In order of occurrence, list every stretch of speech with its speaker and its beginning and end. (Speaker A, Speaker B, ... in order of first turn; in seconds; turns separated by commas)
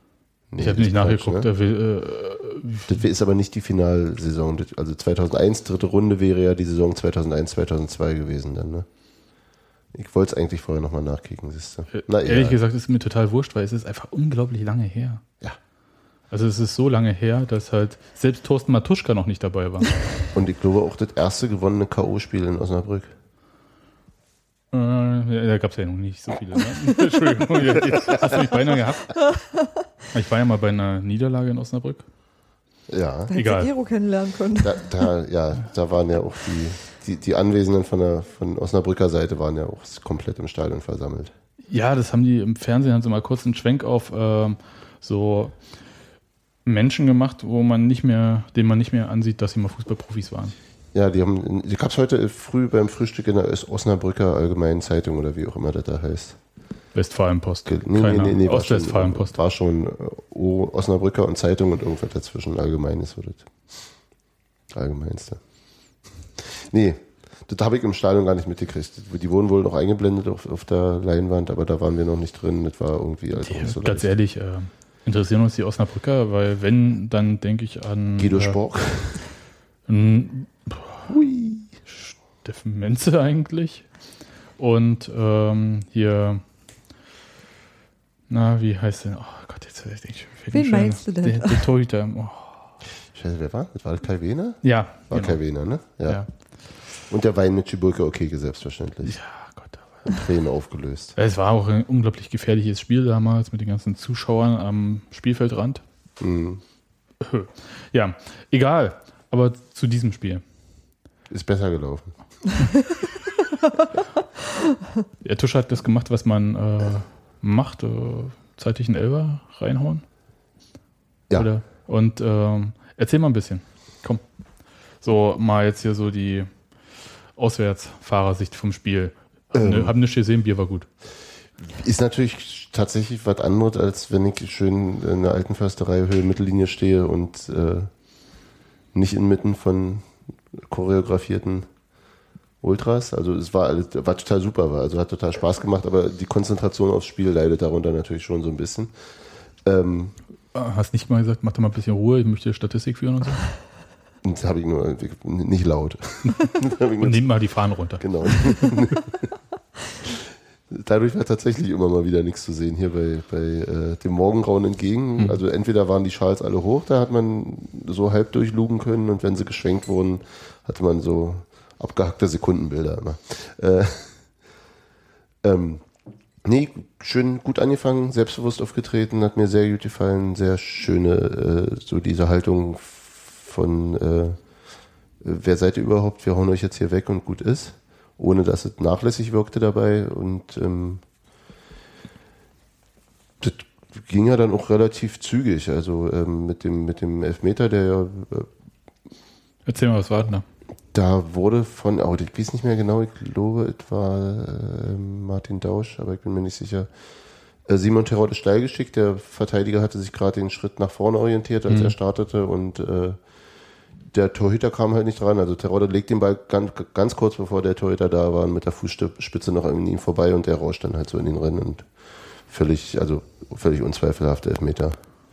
Speaker A: 0.5-1.5, Speaker B: 0.6-3.0, Speaker A: 2.9-8.9, Speaker A: 9.9-12.6, Speaker B: 11.9-15.2, Speaker B: 16.3-20.2, Speaker A: 20.3-23.1, Speaker B: 24.7-29.3, Speaker B: 30.1-32.0, Speaker A: 32.9-33.3, Speaker C: 33.3-34.9, Speaker B: 33.4-33.7, Speaker A: 34.6-41.3, Speaker B: 41.7-45.5, Speaker B: 46.6-50.5, Speaker A: 50.9-56.4, Speaker B: 56.9-59.4, Speaker A: 57.7-63.5, Speaker A: 64.7-65.4, Speaker A: 66.4-74.1, Speaker B: 73.4-78.6, Speaker A: 78.2-79.2, Speaker B: 79.9-81.1, Speaker A: 81.1-81.7, Speaker B: 81.9-83.9, Speaker B: 84.6-86.4, Speaker B: 88.3-92.7, Speaker C: 90.5-91.6, Speaker A: 93.1-96.2, Speaker B: 94.6-95.4, Speaker A: 97.1-99.2, Speaker B: 99.0-100.1, Speaker A: 100.0-101.2, Speaker B: 101.2-105.8, Speaker A: 106.2-106.6, Speaker B: 107.2-110.4, Speaker A: 111.3-112.1, Speaker B: 115.2-120.0, Speaker B: 121.3-124.2, Speaker B: 125.0-126.5, Speaker B: 127.3-130.9, Speaker A: 129.5-129.9, Speaker A: 131.6-137.9, Speaker A: 138.9-141.7, Speaker A: 142.6-148.9, Speaker A: 149.6-150.2, Speaker B: 150.5-153.5, Speaker A: 154.2-157.2, Speaker B: 157.0-158.8, Speaker A: 158.0-159.3, Speaker A: 160.0-174.2, Speaker A: 175.4-175.8, Speaker A: 176.4-184.4, Speaker A: 185.2-191.0, Speaker A: 193.4-198.5, Speaker B: 199.7-200.4, Speaker A: 200.9-206.9, Speaker A: 207.7-213.2, Speaker B: 211.7-211.9, Speaker A: 214.1-221.9, Speaker A: 222.5-225.0